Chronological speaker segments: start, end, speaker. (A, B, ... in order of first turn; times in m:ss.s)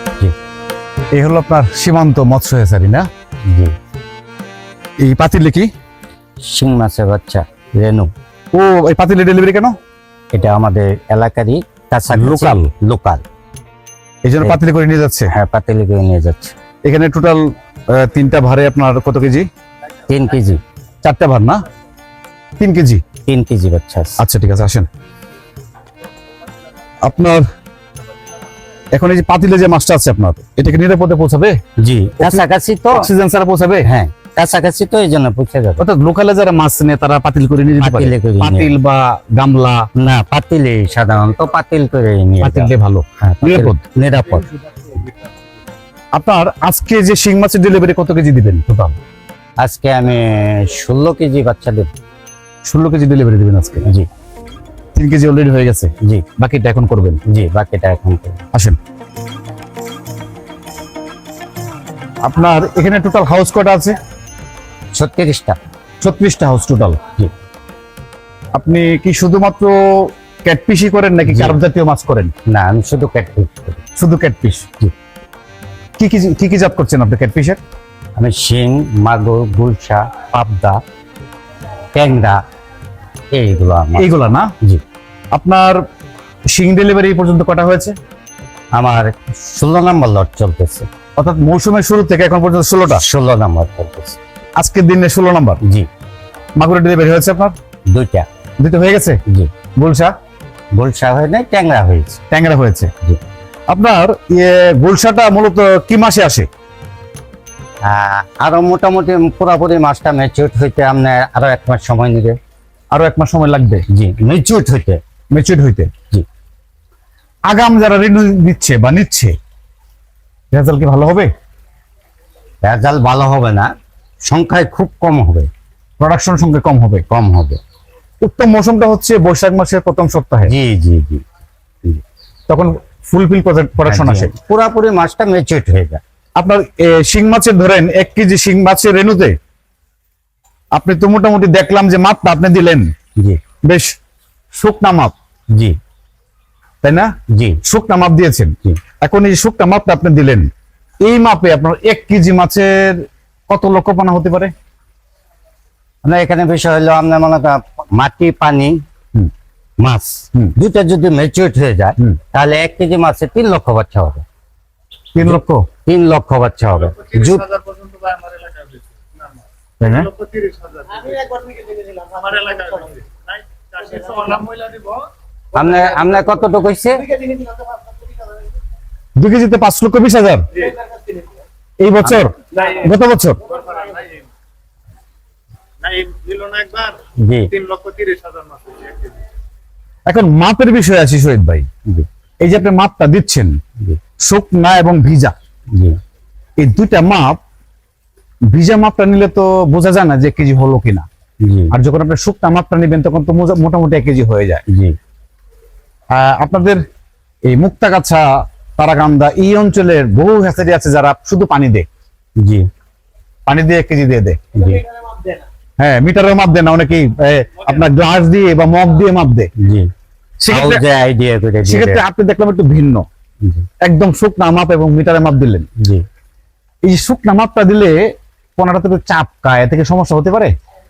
0:01.1-0:03.1 A
0:03.5-0:03.7 B
0:05.0-0:05.7 A
0:06.4-0:08.1 B
0:08.5-0:09.8 A
0:10.3-0:13.2 B
0:12.1-0:12.7 A
0:14.2-0:15.3 A
0:15.3-0:16.6 B
0:16.8-0:17.4 A
0:17.9-0:19.5 A
0:20.1-0:20.6 B
0:21.0-0:21.6 A
0:22.6-0:23.0 A
0:23.3-0:24.2 B
0:24.2-0:24.9 A
0:27.0-0:27.4 A
0:29.0-0:31.6 A
0:31.8-0:33.1 B
0:32.2-0:33.9 A
0:33.8-0:35.8 B
0:35.8-0:39.8 A
0:37.8-0:38.7 B
0:40.0-0:44.5 B
0:42.4-0:43.8 A
0:46.2-0:49.0 A
0:49.6-0:51.9 B
0:52.7-0:53.8 A
0:55.0-0:57.2 A
0:57.3-0:58.4 B
1:02.2-1:04.0 A
1:04.9-1:05.6 B
1:06.0-1:07.0 A
1:08.6-1:12.3 A
1:11.3-1:11.6 B
1:12.5-1:13.8 B
1:14.0-1:14.7 A
1:16.0-1:17.6 A
1:18.2-1:20.8 B
1:21.9-1:22.4 B
1:23.3-1:24.1 B
1:24.0-1:24.5 A
1:25.3-1:25.8 A
1:26.5-1:28.0 A
1:28.8-1:30.9 B
1:31.2-1:33.0 A
1:32.9-1:34.2 B
1:34.6-1:35.6 A
1:36.6-1:37.5 A
1:37.9-1:38.3 B
1:38.6-1:39.2 A
1:39.8-1:40.1 A
1:40.8-1:42.2 B
1:42.3-1:42.9 A
1:43.7-1:46.5 A
1:47.9-1:52.4 B
1:52.9-1:53.8 A
1:53.9-1:55.0 B
1:55.3-1:55.9 A
1:57.5-1:59.4 A
2:00.5-2:01.3 A
2:02.6-2:03.7 B
2:04.2-2:05.5 B
2:06.0-2:07.0 A
2:07.1-2:07.6 B
2:08.2-2:10.5 A
2:10.5-2:11.2 B
2:12.5-2:14.3 A
2:13.9-2:16.0 B
2:16.4-2:19.4 A
2:20.7-2:22.9 A
2:23.6-2:23.9 A
2:24.5-2:25.2 A
2:26.8-2:27.1 A
2:27.3-2:27.6 B
2:27.6-2:30.5 A
2:31.0-2:34.5 A
2:36.0-2:38.8 B
2:39.8-2:44.2 B
2:45.2-2:45.7 A
2:45.2-2:47.5 B
2:47.6-2:48.7 C
2:49.8-2:50.1 A
2:50.3-2:51.0 C
2:52.3-2:52.9 C
2:53.9-2:54.8 C
2:55.6-2:57.0 B
2:59.2-3:00.4 A
3:01.8-3:03.4 A
3:05.8-3:06.9 C
3:07.2-3:07.5 B
3:07.6-3:09.1 C
3:10.1-3:11.7 A
3:12.4-3:13.5 A
3:14.2-3:15.4 A
3:16.6-3:17.4 A
3:18.5-3:21.1 A
3:21.4-3:21.7 B
3:21.7-3:24.6 A
3:24.7-3:25.0 B
3:26.1-3:26.8 A
3:27.5-3:31.9 A
3:32.4-3:32.7 B
3:33.5-3:34.4 A
3:34.6-3:34.8 B
3:35.8-3:39.5 A
3:39.6-3:39.9 B
3:40.4-3:40.8 A
3:40.5-3:42.0 B
3:41.7-3:43.1 A
3:43.8-3:45.7 A
3:46.9-3:48.0 A
3:48.6-3:50.5 A